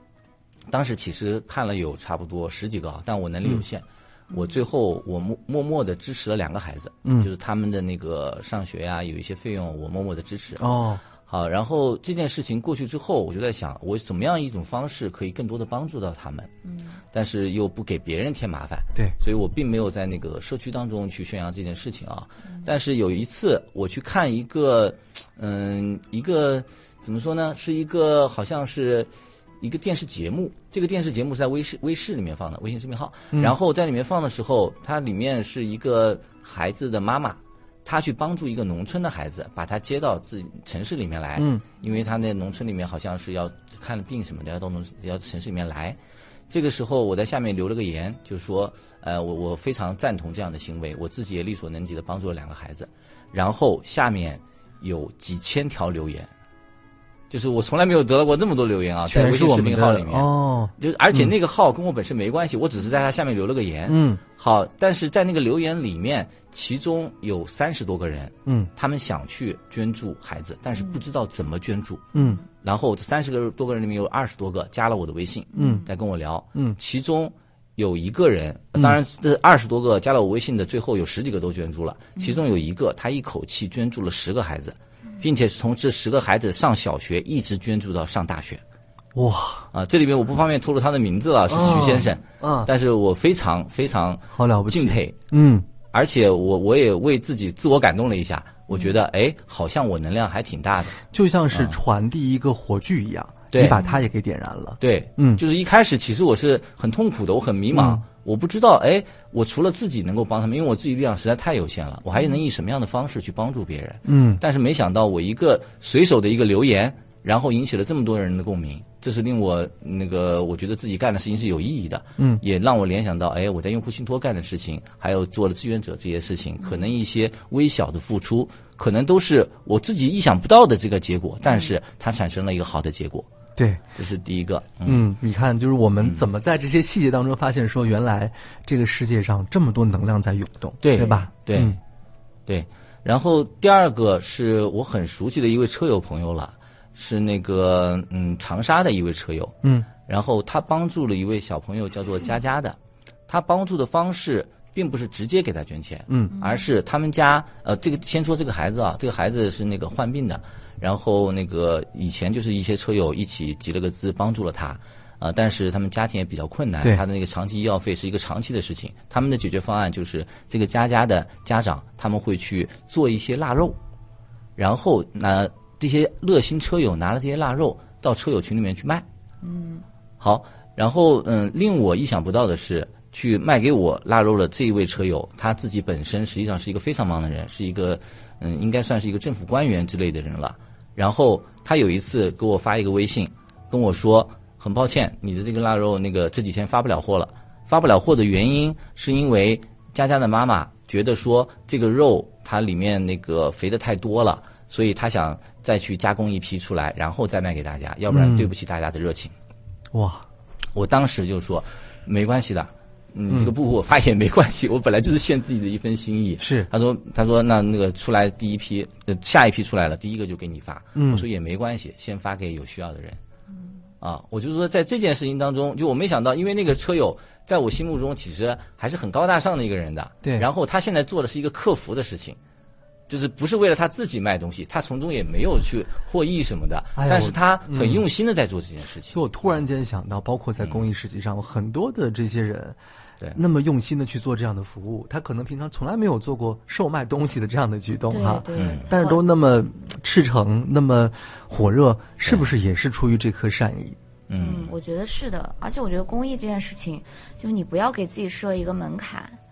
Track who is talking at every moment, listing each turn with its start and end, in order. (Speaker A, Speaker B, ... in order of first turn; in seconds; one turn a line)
Speaker A: 0.7-16.5
Speaker B: 7.0-7.3
Speaker B: 10.6-11.0
Speaker C: 16.7-17.0
Speaker A: 17.1-46.0
Speaker B: 41.4-41.6
Speaker A: 46.5-56.3
Speaker A: 57.3-88.6
Speaker B: 59.1-61.3
Speaker B: 63.9-64.2
Speaker B: 72.2-72.4
Speaker C: 72.2-72.4
Speaker C: 75.5-75.9
Speaker B: 75.6-75.8
Speaker B: 89.2-89.7
Speaker A: 89.7-95.2
Speaker B: 91.5-92.7
Speaker B: 94.3-95.7
Speaker A: 95.9-101.0
Speaker B: 101.1-105.4
Speaker A: 101.5-101.8
Speaker A: 103.5-103.8
Speaker A: 104.8-133.3
Speaker B: 107.7-108.0
Speaker B: 114.1-114.4
Speaker B: 122.2-122.4
Speaker B: 133.6-133.8
Speaker A: 134.0-135.0
Speaker B: 134.9-141.8
Speaker A: 140.8-141.8
Speaker C: 141.0-141.3
Speaker A: 142.5-152.8
Speaker B: 149.6-149.9
Speaker A: 153.3-173.8
Speaker B: 156.1-156.3
Speaker A: 174.6-179.1
Speaker C: 179.4-179.8
Speaker A: 180.2-209.3
Speaker B: 208.1-208.5
Speaker B: 209.9-210.2
Speaker A: 210.7-223.2
Speaker B: 216.4-216.7
Speaker B: 220.9-221.3
Speaker A: 224.0-232.4
Speaker A: 233.1-239.2
Speaker B: 237.0-238.1
Speaker B: 239.1-242.8
Speaker B: 243.3-254.0
Speaker C: 248.1-249.2
Speaker A: 248.5-248.9
Speaker A: 254.3-254.7
Speaker C: 254.4-259.4